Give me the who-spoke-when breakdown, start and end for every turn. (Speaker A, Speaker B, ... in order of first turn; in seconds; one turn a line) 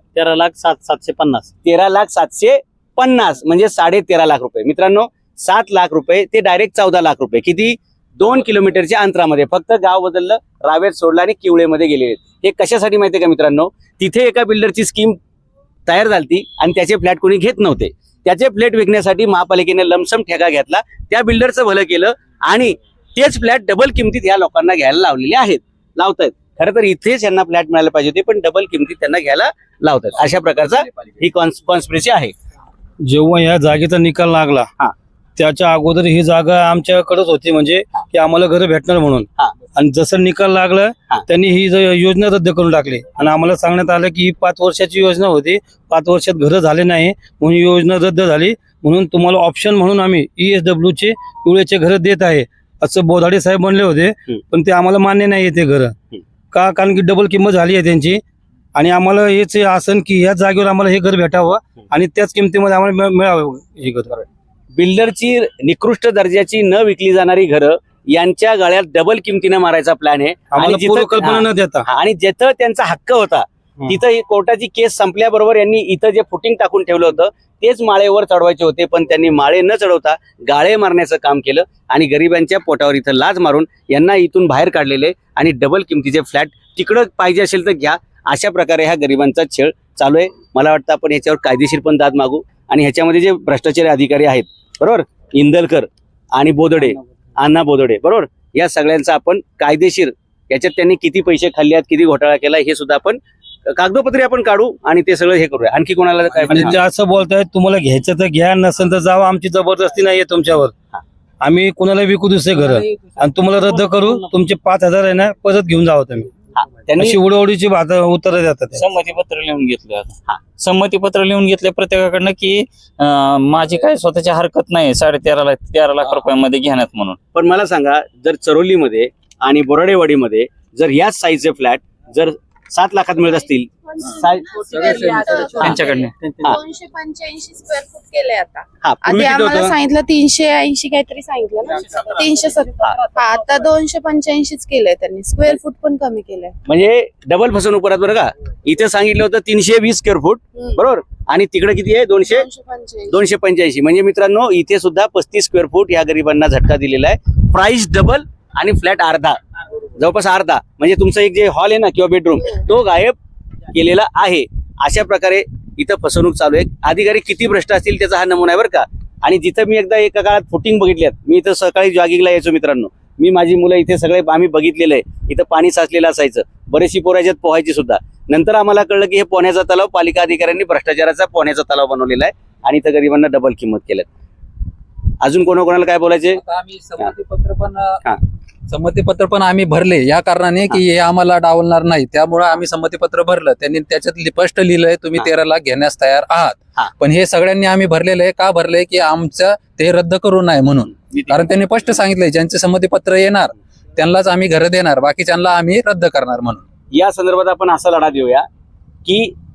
Speaker A: 0.1-1.5
Speaker B: 1.6-15.2
Speaker B: 15.9-32.3
Speaker C: 33.0-34.7
Speaker C: 35.4-56.0
Speaker C: 56.5-58.2
Speaker C: 58.8-64.2
Speaker B: 64.8-106.8
Speaker C: 70.5-71.9
Speaker C: 106.4-110.7
Speaker C: 111.4-116.3
Speaker A: 112.7-114.3
Speaker B: 116.6-117.2
Speaker C: 117.0-118.8
Speaker D: 118.7-127.2
Speaker B: 127.3-134.5
Speaker E: 133.9-146.5
Speaker F: 134.8-135.7
Speaker D: 135.6-136.1
Speaker B: 138.8-139.7
Speaker B: 146.7-152.5
Speaker E: 152.3-153.2
Speaker B: 153.1-159.4
Speaker B: 160.0-163.2
Speaker B: 163.7-184.1
Speaker B: 185.2-186.4
Speaker F: 186.4-188.0
Speaker F: 188.7-206.6
Speaker B: 201.1-201.4
Speaker B: 206.9-208.5
Speaker B: 209.1-209.3